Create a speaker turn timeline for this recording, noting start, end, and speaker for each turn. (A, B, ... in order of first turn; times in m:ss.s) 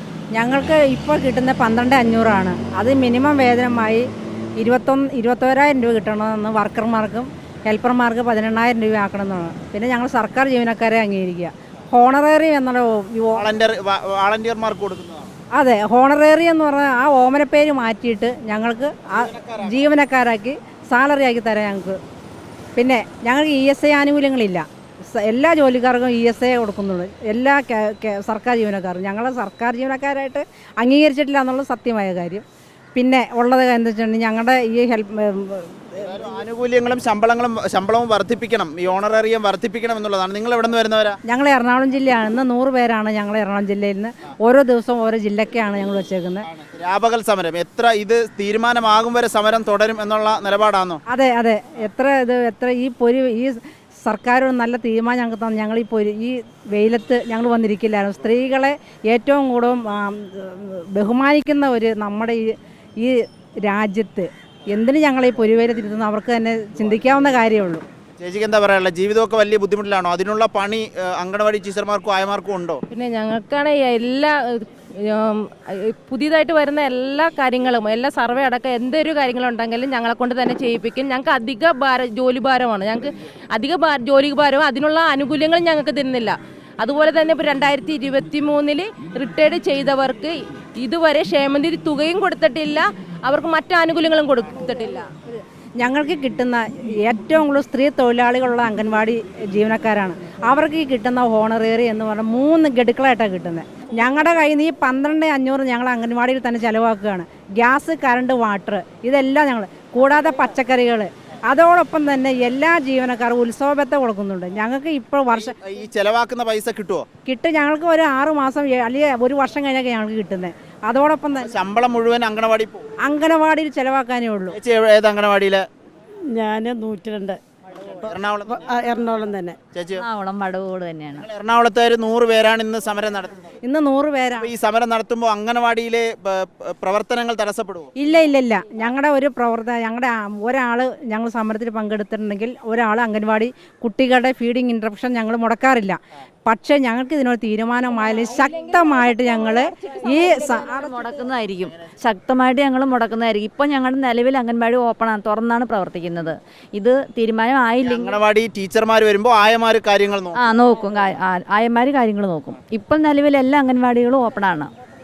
0:00.4-0:04.1 A
0:04.6-0:13.4 A
0:13.4-0:15.3 B
0:15.6-0:22.0 A
0:19.1-0:19.9 B
0:22.8-0:32.4 A
0:33.0-0:36.0 A
0:36.0-0:41.2 B
0:41.3-0:46.4 A
0:46.5-0:51.0 B
0:51.1-1:07.8 A
1:08.2-1:12.8 B
1:12.9-1:35.1 C
1:35.3-1:55.5 A
1:55.3-1:57.1 B
1:57.3-2:01.5 A
2:01.4-2:02.9 B
2:03.1-2:04.6 A
2:04.5-2:05.6 B
2:06.3-2:07.4 D
2:08.0-2:08.7 B
2:08.5-2:09.6 D
2:09.7-2:10.0 B
2:10.0-2:11.2 E
2:11.2-2:13.6 B
2:13.6-2:14.5 A
2:14.4-2:17.9 B
2:18.0-2:30.9 A
2:30.4-2:38.2 E
2:37.8-2:40.4 B
2:40.4-2:44.7 E